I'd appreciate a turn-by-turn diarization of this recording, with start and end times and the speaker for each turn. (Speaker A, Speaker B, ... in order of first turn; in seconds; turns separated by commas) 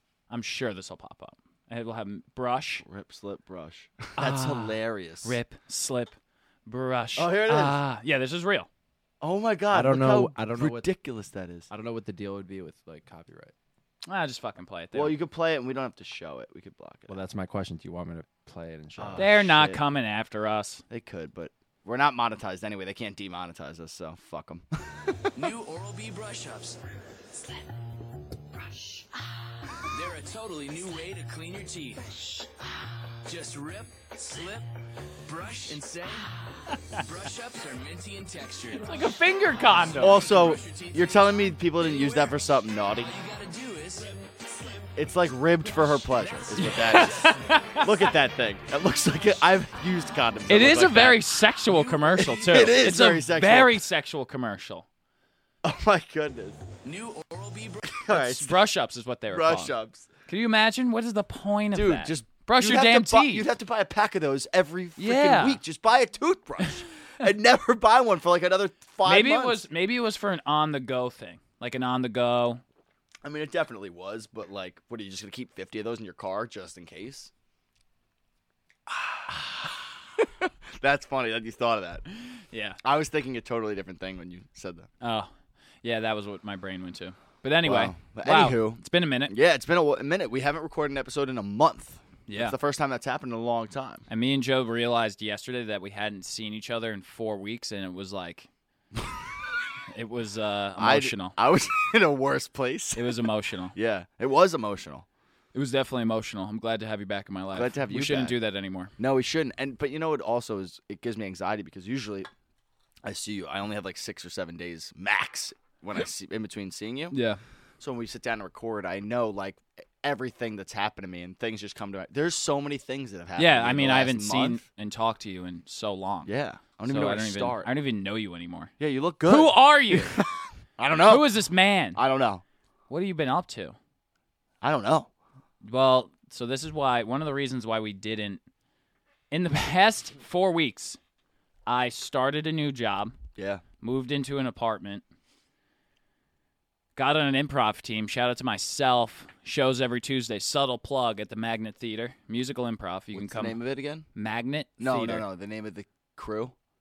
Speaker A: 0.3-2.8, Speaker B: 2.8-5.3, Speaker A: 4.2-8.7, Speaker B: 7.2-7.8, Speaker B: 9.2-11.7, Speaker C: 9.7-10.9, Speaker C: 11.7-13.5, Speaker A: 14.1-15.1, Speaker B: 14.9-17.2, Speaker C: 17.1-19.4, Speaker B: 19.0-19.8, Speaker A: 19.2-20.8, Speaker B: 20.9-25.3, Speaker D: 25.3-26.8, Speaker D: 29.9-32.1, Speaker D: 33.2-34.7, Speaker D: 35.2-36.3, Speaker D: 36.9-39.2, Speaker A: 38.8-40.2, Speaker D: 40.0-42.4, Speaker B: 40.0-43.1, Speaker D: 43.0-44.9, Speaker B: 45.0-51.2, Speaker D: 45.6-47.8, Speaker A: 46.6-47.9, Speaker A: 50.5-54.9, Speaker D: 51.6-52.3, Speaker B: 52.1-53.8, Speaker B: 55.6-56.6, Speaker D: 56.8-58.0, Speaker B: 57.9-58.5, Speaker A: 58.1-59.7, Speaker B: 59.3-60.1, Speaker A: 60.3-63.5, Speaker B: 61.7-69.6, Speaker A: 65.0-65.6, Speaker A: 69.0-72.6, Speaker B: 73.2-77.3, Speaker B: 78.9-82.0, Speaker A: 82.5-82.8, Speaker B: 82.8-84.9, Speaker A: 85.0-85.3, Speaker A: 85.8-89.3, Speaker B: 87.6-94.0, Speaker A: 92.3-92.5, Speaker A: 94.1-98.5, Speaker A: 99.9-101.3, Speaker B: 100.8-103.2, Speaker A: 102.9-103.7, Speaker B: 103.7-105.0, Speaker A: 105.5-108.9, Speaker B: 107.5-108.3, Speaker B: 109.0-112.3, Speaker B: 113.0-117.2, Speaker A: 117.1-117.4, Speaker B: 117.8-124.6, Speaker A: 123.4-126.3, Speaker B: 126.2-127.7, Speaker A: 126.8-128.7, Speaker B: 128.8-131.3, Speaker A: 129.2-130.2, Speaker A: 131.1-132.0, Speaker B: 131.9-132.4, Speaker A: 132.9-133.8, Speaker B: 134.6-135.1, Speaker A: 135.6-138.4, Speaker A: 139.3-141.0, Speaker A: 141.7-143.2, Speaker B: 143.4-143.6, Speaker A: 143.8-145.0, Speaker A: 146.9-153.6, Speaker B: 153.1-154.1, Speaker A: 154.1-155.2, Speaker B: 154.8-156.5